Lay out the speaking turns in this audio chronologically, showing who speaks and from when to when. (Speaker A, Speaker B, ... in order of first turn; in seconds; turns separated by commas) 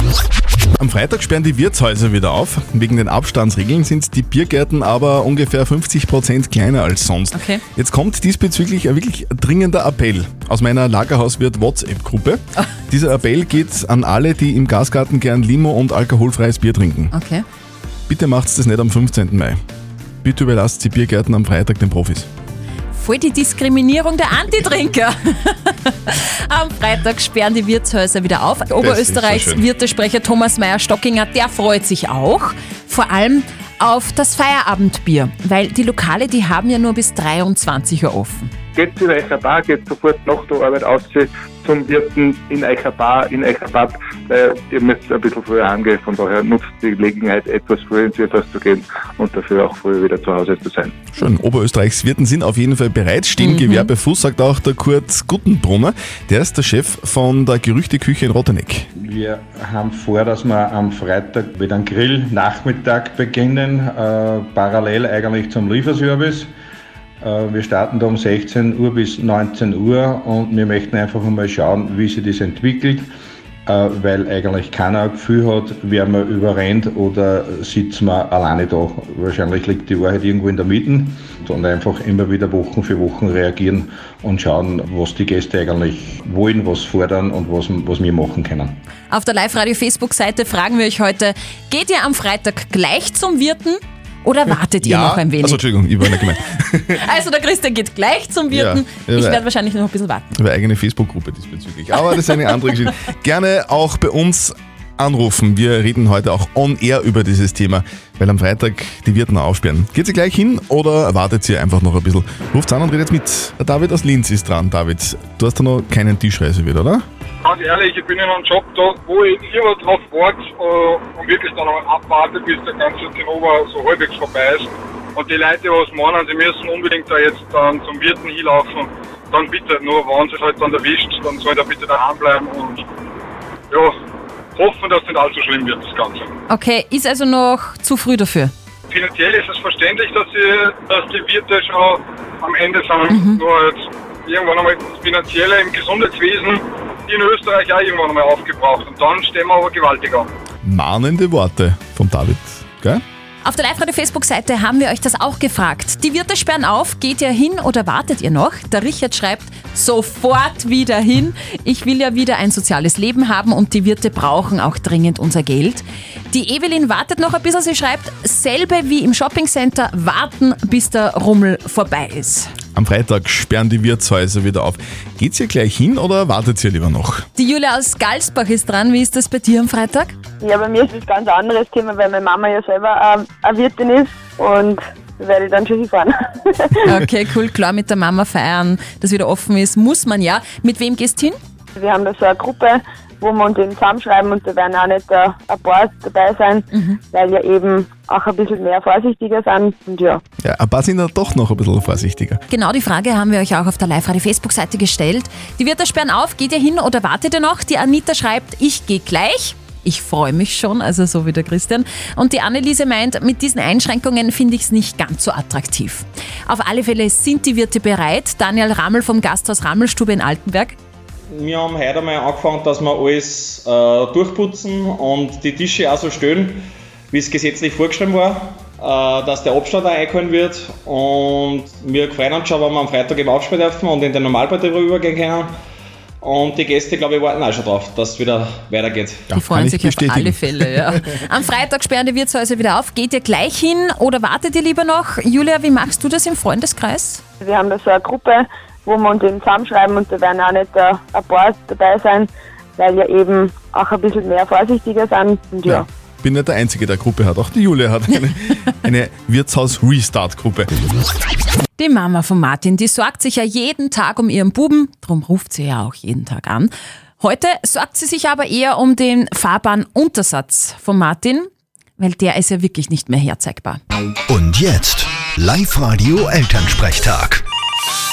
Speaker A: 0.8-17.1, Speaker B: 7.3-7.6, Speaker B: 17.1-17.4, Speaker A: 18.1-19.6, Speaker A: 20.2-22.3, Speaker B: 22.9-38.5, Speaker A: 28.8-29.6, Speaker C: 38.8-41.0, Speaker C: 41.6-42.6, Speaker A: 51.1-58.9, Speaker B: 53.4-53.9, Speaker D: 59.0-66.5, Speaker D: 67.2-73.1, Speaker D: 73.7-88.8, Speaker B: 89.1-96.3, Speaker A: 94.8-97.0, Speaker B: 97.0-100.3, Speaker A: 98.5-99.4, Speaker A: 100.3-117.0, Speaker E: 117.4-132.8, Speaker E: 133.7-134.0, Speaker E: 134.5-136.3, Speaker B: 136.5-138.5, Speaker E: 138.9-150.3, Speaker B: 143.1-143.4, Speaker A: 150.6-153.0, Speaker B: 153.4-172.5, Speaker A: 172.7-177.2, Speaker B: 177.3-180.1, Speaker F: 180.4-186.8, Speaker B: 186.8-191.4, Speaker F: 191.8-200.2, Speaker B: 196.7-197.0, Speaker A: 200.4-202.4, Speaker B: 202.5-220.8, Speaker G: 221.3-235.5, Speaker G: 236.2-239.2, Speaker A: 239.3-241.0, Speaker B: 239.3-247.2, Speaker F: 247.4-255.9, Speaker A: 255.6-260.7, Speaker B: 261.8-273.8, Speaker H: 274.3-277.4